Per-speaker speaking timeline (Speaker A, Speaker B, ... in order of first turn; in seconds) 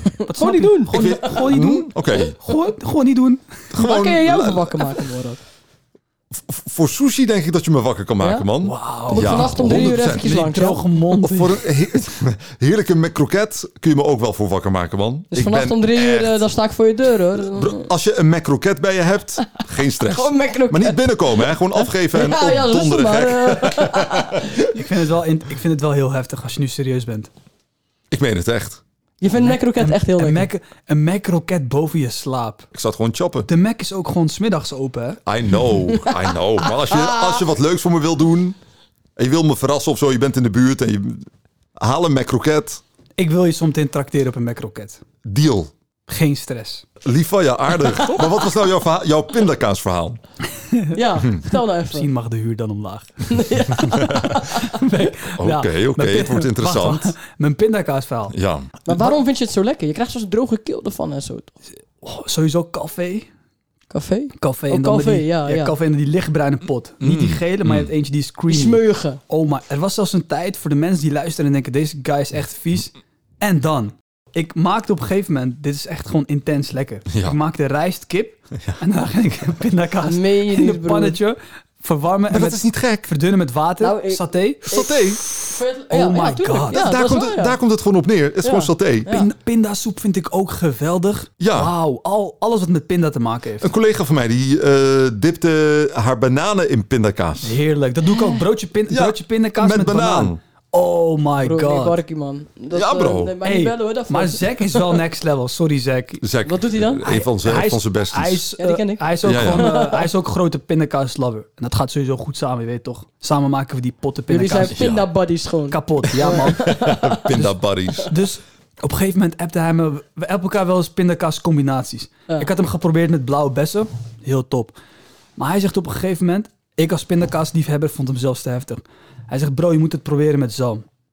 Speaker A: 0.2-1.5, 3.7-5.4, 8.2-8.5, 9.0-10.8, 15.3-17.9, 20.0-24.5, 29.2-30.5, 36.8-37.4, 50.9-52.1, 53.3-54.8, 58.9-61.5, 63.9-65.7, 68.5-69.2, 80.0-81.2, 83.8-87.6, 88.4-89.3, 101.4-105.0, 106.5-107.0, 108.6-110.1, 114.3-117.3
Speaker B: 0.2-3.5, 8.6-11.7, 24.7-27.3, 29.4-32.7, 33.5-35.2, 43.2-45.0, 46.1-46.9, 50.6-51.0, 51.9-58.3, 62.0-63.3, 64.4-85.2, 85.9-86.8, 89.1-93.7, 97.4-102.0, 103.4-106.2, 107.0-114.9, 115.7-124.7, 125.3-130.8
Speaker C: 0.9-2.4, 3.7-5.0, 6.3-10.4, 11.2-16.4, 17.5-24.7, 28.1-28.8, 32.7-33.5, 35.2-38.6, 39.1-42.8, 45.2-45.7, 47.0-50.2, 54.0-54.2, 55.4-57.1, 58.3-58.8, 67.0-67.9, 77.1-77.4, 82.3-83.1, 84.7-85.2, 86.7-89.1, 91.4-91.7, 93.6-97.6, 98.9-100.4, 102.7-103.4, 106.2-108.5, 109.2-109.7, 114.7-115.1, 116.2-118.2